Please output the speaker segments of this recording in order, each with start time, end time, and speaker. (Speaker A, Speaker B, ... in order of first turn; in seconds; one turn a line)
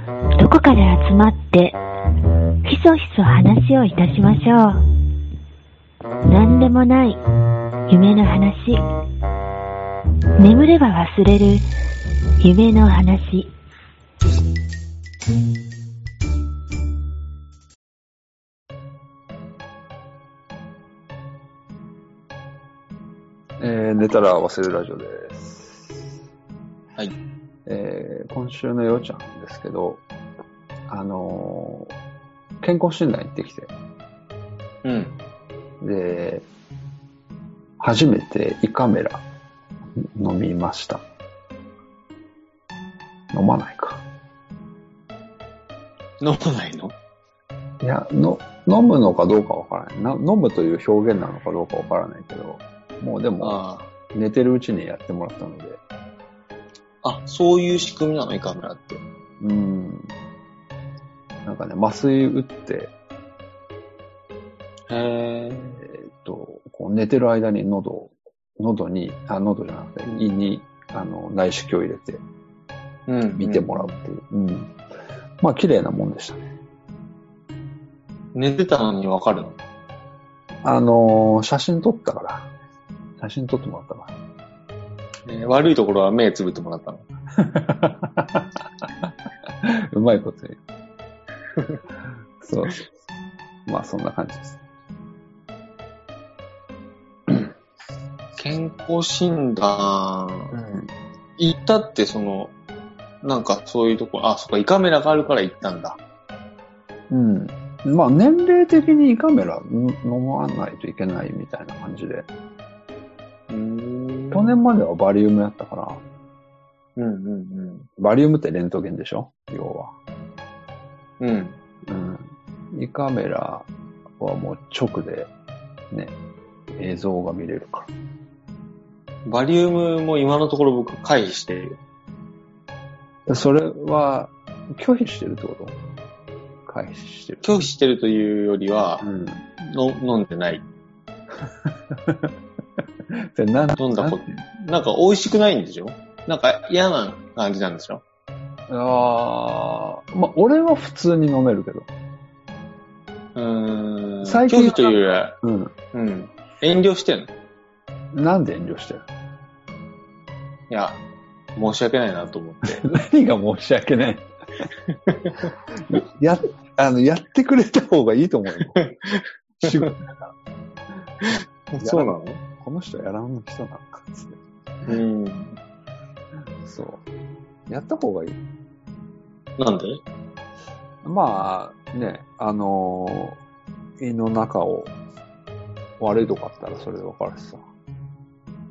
Speaker A: 0.4-1.8
Speaker A: 2.6-4.8
Speaker A: 6.2-7.2
Speaker A: 7.9-8.8
Speaker A: 10.4-11.7
Speaker A: 12.4-13.5
Speaker B: 23.6-26.1
Speaker B: 27.6-30.0
Speaker B: 30.9-31.9
Speaker B: 32.6-33.7
Speaker C: 34.8-35.2
Speaker B: 35.8-36.5
Speaker B: 37.8-39.2
Speaker B: 40.0-41.0
Speaker B: 43.3-44.0
Speaker C: 46.2-47.0
Speaker B: 47.8-55.8
Speaker C: 53.4-53.9
Speaker C: 57.0-59.0
Speaker B: 59.4-60.1
Speaker B: 61.4-62.9
Speaker C: 64.9-65.7
Speaker B: 65.7-72.2
Speaker C: 73.1-74.0
Speaker B: 73.4-74.7
Speaker B: 75.4-76.4
Speaker C: 78.3-79.6
Speaker B: 80.6-82.5
Speaker B: 83.2-84.1
Speaker C: 85.3-87.0
Speaker B: 87.4-88.6
Speaker B: 89.6-90.6
Speaker B: 92.4-92.8
Speaker B: 93.7-94.6
Speaker C: 98.4-100.5
Speaker B: 100.5-100.9
Speaker C: 101.4-102.5
Speaker C: 103.2-106.0
Speaker B: 107.1-112.3
Speaker C: 113.5-114.6
Speaker B: 114.3-116.0
Speaker C: 117.0-117.9
Speaker B: 118.0-119.9
Speaker C: 121.2-121.6
Speaker B: 121.9-125.3
Speaker B: 126.7-127.9
Speaker C: 129.3-131.8
Speaker B: 133.3-135.8
Speaker B: 136.7-137.6
Speaker C: 137.4-139.1
Speaker B: 139.0-139.4
Speaker C: 139.6-140.7
Speaker B: 141.7-142.3
Speaker B: 143.1-144.4
Speaker C: 143.8-148.0
Speaker B: 148.7-151.9
Speaker C: 153.3-155.4
Speaker B: 154.2-155.7
Speaker C: 155.9-157.3
Speaker B: 158.1-159.1
Speaker C: 160.7-161.0
Speaker C: 161.6-162.8
Speaker B: 162.7-164.3
Speaker C: 165.1-165.5
Speaker B: 165.8-168.8
Speaker C: 168.8-169.9
Speaker B: 169.6-170.3
Speaker C: 171.2-172.4
Speaker B: 171.8-174.4
Speaker C: 174.9-175.6
Speaker B: 176.6-177.0
Speaker B: 177.7-178.4
Speaker C: 179.6-180.0
Speaker B: 181.0-183.4
Speaker B: 184.0-184.9
Speaker B: 186.0-187.7